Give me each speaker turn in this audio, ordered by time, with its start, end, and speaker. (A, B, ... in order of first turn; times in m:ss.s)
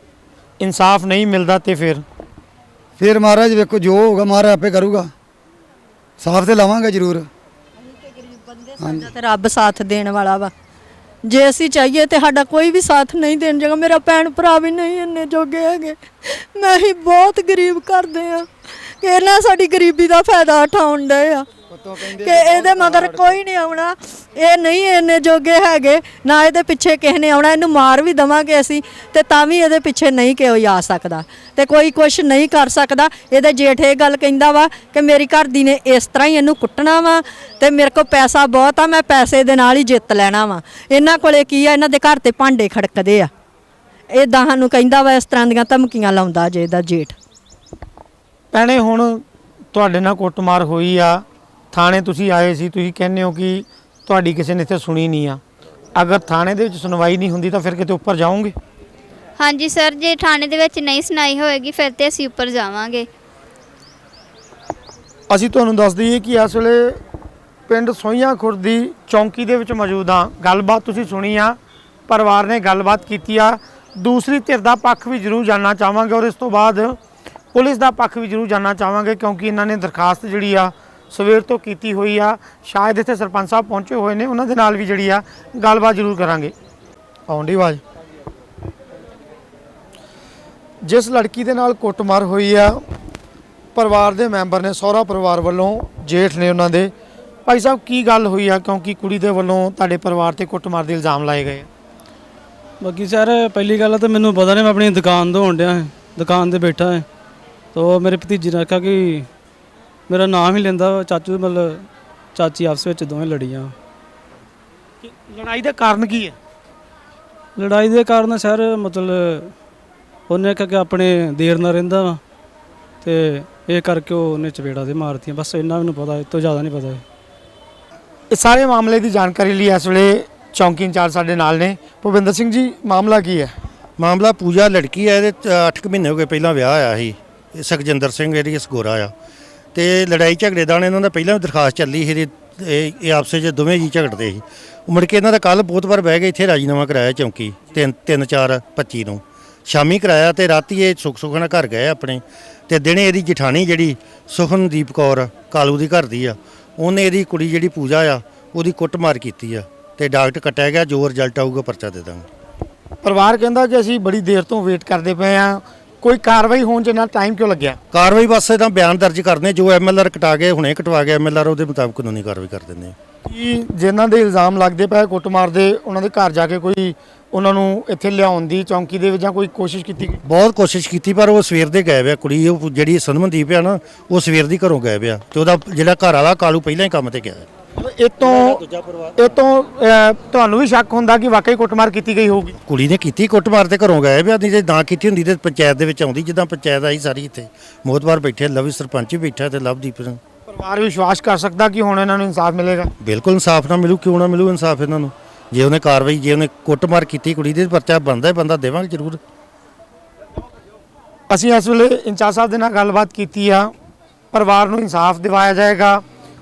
0:00.6-0:02.0 A
0:03.0-0:05.1 B
0:06.2-0:07.3 B
0:08.1-0:10.5 C
0:08.8-0:09.1 B
0:11.3-0:18.5 C
0:19.0-0:21.5 C
0:21.7-0:23.4 B
0:22.2-0:43.3 C
0:44.1-0:47.2 C
0:48.5-0:55.4 A
0:56.0-0:58.6 A
0:59.4-1:03.1 D
1:05.3-1:07.0 A
1:07.7-1:17.0 A
1:17.5-1:26.5 A
1:27.3-1:27.8 A
1:30.8-1:32.8 A
1:33.8-1:36.9 A
1:37.5-1:41.7 A
1:42.8-1:47.1 E
1:47.7-1:49.3 E
1:50.1-1:53.8 E
1:55.0-1:56.4 A
1:57.6-1:59.5 E
2:00.3-2:02.2 E
2:03.0-2:07.0 E
2:08.3-2:13.5 A
2:14.0-2:19.1 F
2:19.8-2:42.3 F
2:43.0-2:47.8 A
2:47.9-2:53.0 F
2:53.2-3:00.2 A
3:00.2-3:07.5 F
3:07.8-3:08.6 A
3:08.2-3:09.4 F
3:09.2-3:12.6 A
3:12.7-3:20.2 F
3:20.5-3:22.9 A
3:23.0-3:29.2 F
3:31.3-3:33.7 A
3:34.3-3:36.0 A